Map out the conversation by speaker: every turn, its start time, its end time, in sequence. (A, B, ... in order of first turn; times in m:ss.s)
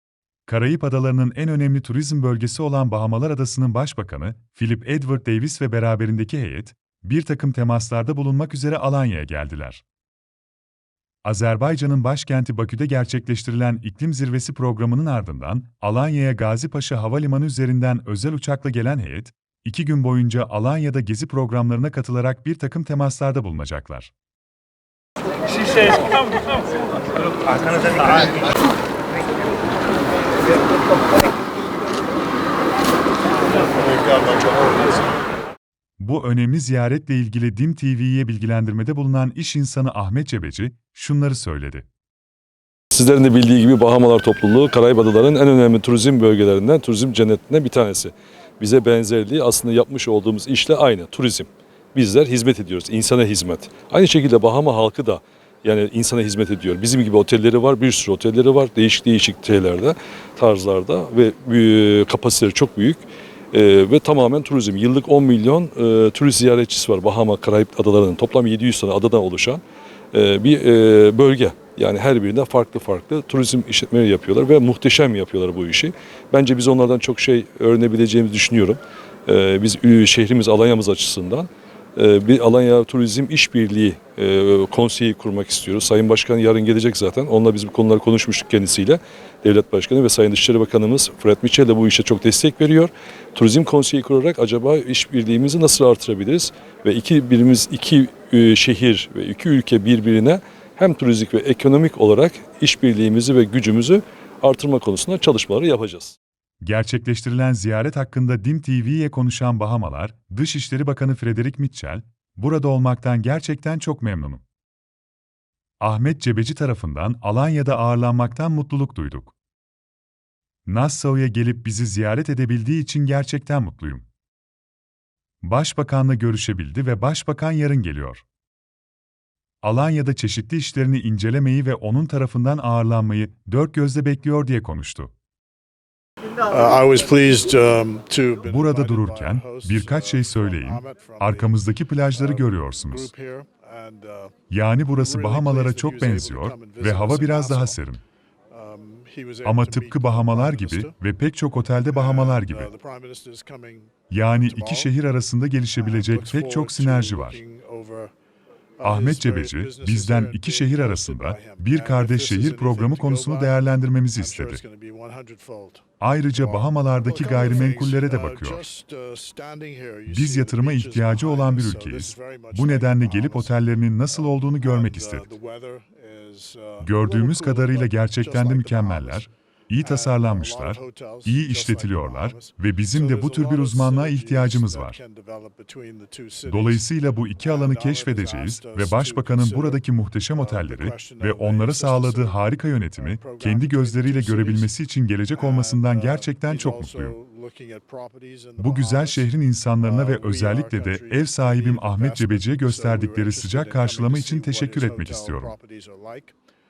0:00.5-0:09.8 A
0:11.2-0:24.1 A
0:36.0-0:41.9 A
0:42.9-1:09.6 B
1:10.1-1:46.2 B
1:46.6-1:54.4 A
1:55.8-1:59.3 A
2:00.7-2:04.1 A
2:05.4-2:08.2 A
2:09.6-2:15.1 A
2:16.4-2:21.6 C
2:18.4-2:23.1 A
2:22.1-2:24.4 C
2:24.5-2:28.0 A
2:24.9-2:27.8 C
2:28.5-2:31.0 C
2:29.4-2:32.7 A
2:31.9-2:34.9 C
2:34.1-2:37.4 A
2:35.8-2:38.1 C
2:38.8-2:45.8 C
2:38.8-2:44.6 A
2:46.0-2:48.7 A
2:46.4-2:53.6 C
2:50.1-2:55.3 A
2:54.1-2:59.3 C
2:56.8-3:05.0 A
2:59.8-3:06.9 C
3:06.5-3:17.2 A
3:07.4-3:09.8 C
3:10.4-3:12.4 C
3:12.9-3:14.7 C
3:15.3-3:26.4 C
3:18.6-3:25.6 A